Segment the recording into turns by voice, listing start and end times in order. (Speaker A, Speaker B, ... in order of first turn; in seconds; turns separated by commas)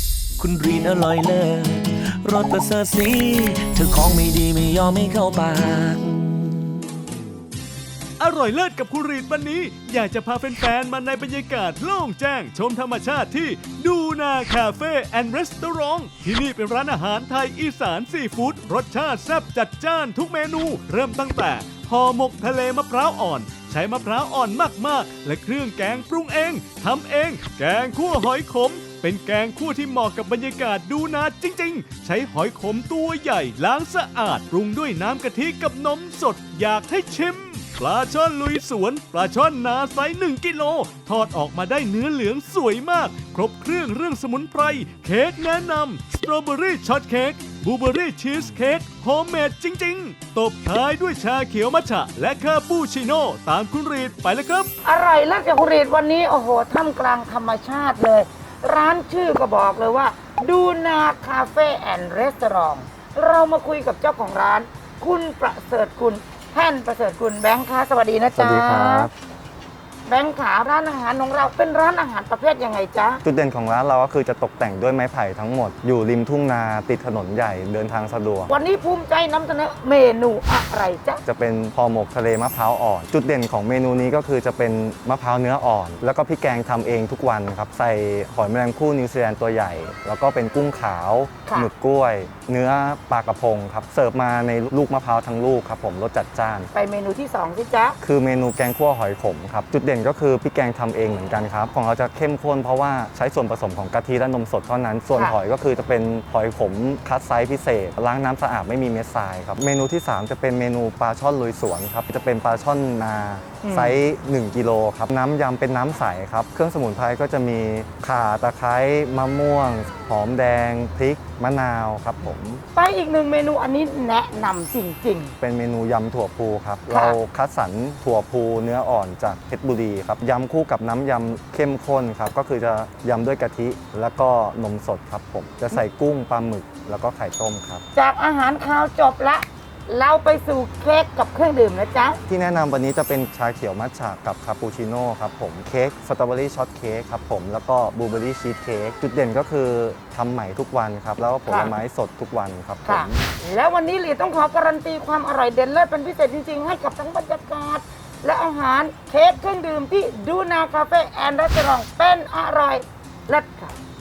Speaker A: 0.4-6.7, Speaker B: 8.2-54.7, Speaker C: 54.8-69.1, Speaker D: 68.3-69.1, Speaker C: 70.0-73.2, Speaker D: 73.2-78.5, Speaker C: 78.5-81.2, Speaker D: 81.2-96.7, Speaker C: 96.7-98.0, Speaker D: 98.0-122.6, Speaker C: 113.6-114.0, Speaker C: 122.7-125.3, Speaker D: 125.4-137.8, Speaker C: 126.9-127.2, Speaker C: 137.9-142.2, Speaker D: 142.3-153.2, Speaker C: 151.5-151.7, Speaker C: 152.8-163.7